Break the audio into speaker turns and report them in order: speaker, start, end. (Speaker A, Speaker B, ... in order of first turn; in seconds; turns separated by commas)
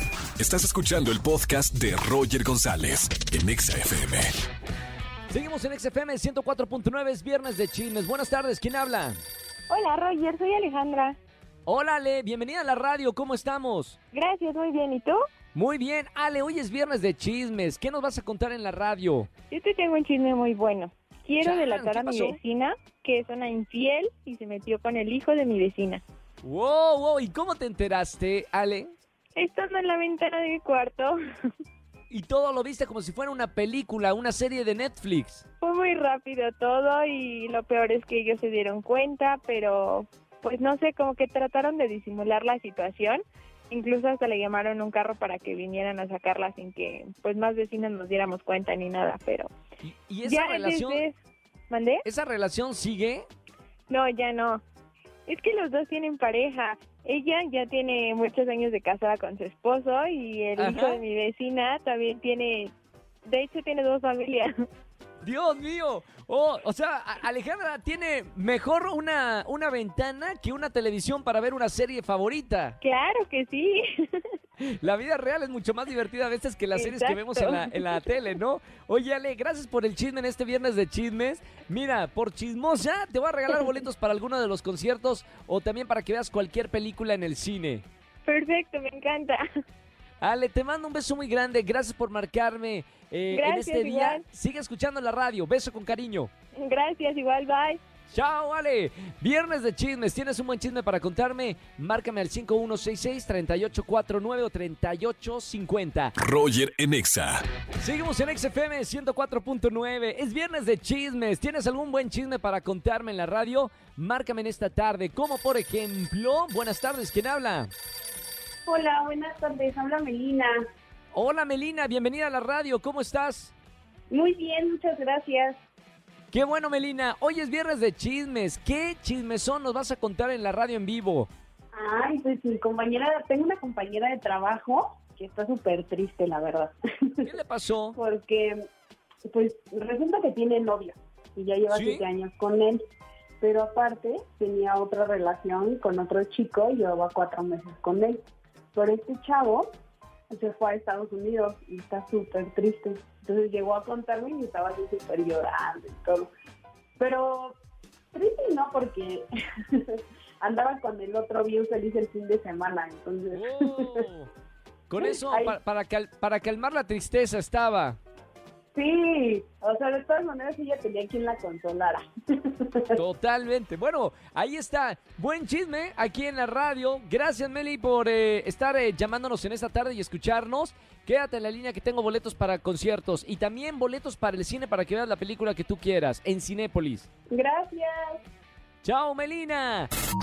Speaker A: 0.4-4.3, Speaker B: 5.3-9.2, Speaker C: 9.7-11.2, Speaker B: 11.7-14.0, Speaker C: 14.1-15.2, Speaker B: 15.5-19.3, Speaker C: 19.5-26.0, Speaker B: 21.4-22.4, Speaker B: 26.4-28.9, Speaker C: 29.4-31.2, Speaker B: 32.1-35.4, Speaker C: 35.6-49.5, Speaker B: 49.8-51.0, Speaker C: 50.2-51.1, Speaker C: 51.7-52.0, Speaker B: 52.0-53.3, Speaker C: 53.9-54.6, Speaker C: 55.3-62.7, Speaker B: 60.6-61.0, Speaker C: 63.2-64.5, Speaker B: 65.2-72.8, Speaker C: 72.8-74.3, Speaker B: 74.6-87.8, Speaker C: 76.8-78.2, Speaker C: 88.3-89.4, Speaker B: 90.2-96.3, Speaker C: 93.3-94.2, Speaker C: 96.5-97.8, Speaker B: 98.1-106.1, Speaker A: 106.2-107.4, Speaker B: 107.8-117.7, Speaker D: 118.7-120.6, Speaker B: 121.1-123.5, Speaker D: 124.1-125.6, Speaker B: 126.3-131.3, Speaker D: 131.7-137.3, Speaker B: 137.2-138.0, Speaker D: 138.0-138.6, Speaker D: 139.3-142.8, Speaker B: 141.7-142.0, Speaker D: 143.4-148.2, Speaker D: 148.7-149.7, Speaker D: 150.3-156.3, Speaker D: 157.0-157.6, Speaker D: 158.1-164.1, Speaker B: 163.3-164.3, Speaker B: 164.9-168.0, Speaker D: 165.0-165.6, Speaker D: 168.8-173.0, Speaker B: 172.9-187.1, Speaker D: 187.3-188.2, Speaker B: 188.8-189.9